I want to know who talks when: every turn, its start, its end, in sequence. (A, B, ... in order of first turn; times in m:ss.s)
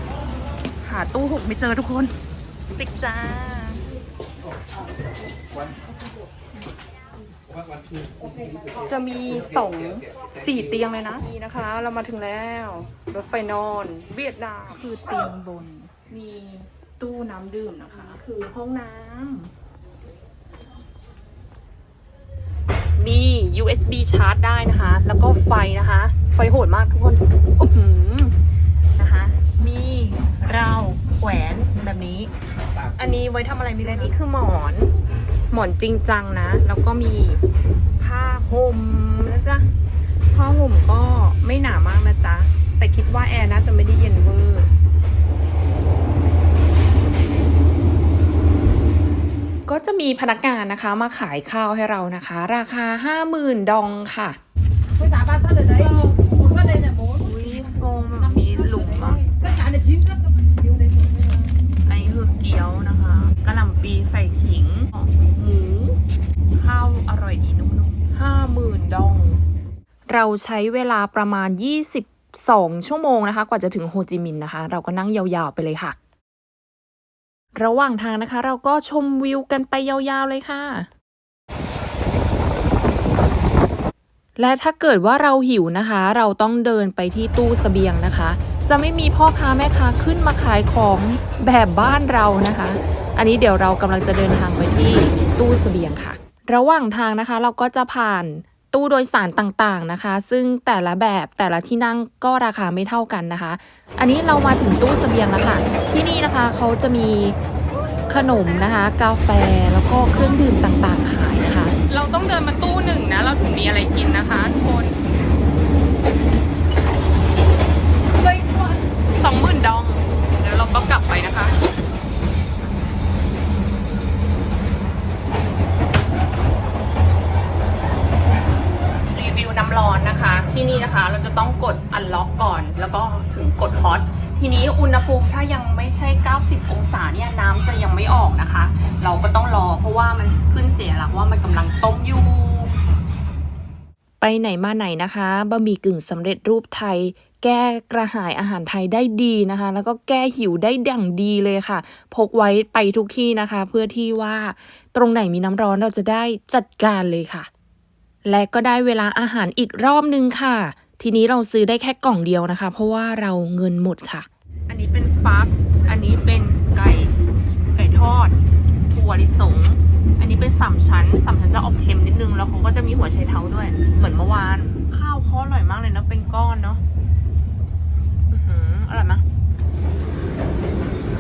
0:00.8-0:02.1 A
0:01.5-0:02.0 B
0:02.8-0:03.8 A
0:08.9-0:09.7 A
0:09.2-0:11.3 B
0:10.4-0:19.2 A
0:17.0-0:19.5 B
0:23.0-0:28.3 A
0:29.0-0:32.3 A
0:33.0-0:34.9 A
0:35.5-0:37.4 A
0:38.0-0:39.6 A
0:40.3-0:44.7 A
0:49.7-0:54.4 A
0:55.0-1:00.2 B
0:55.7-0:56.3 A
0:57.0-0:59.3 A
1:00.8-1:01.4 B
1:01.8-1:05.9 A
1:03.2-1:03.8 B
1:04.7-1:05.0 B
1:06.6-1:09.4 A
1:10.1-1:16.0 A
1:17.5-1:20.9 A
1:24.4-1:47.4 A
1:48.1-1:55.0 A
1:58.2-2:01.6 A
2:09.2-2:22.7 A
2:24.2-2:37.5 A
2:38.2-2:47.1 A
2:46.5-2:46.8 B
2:47.8-2:48.4 A
2:48.9-2:56.8 A
2:58.3-2:59.2 A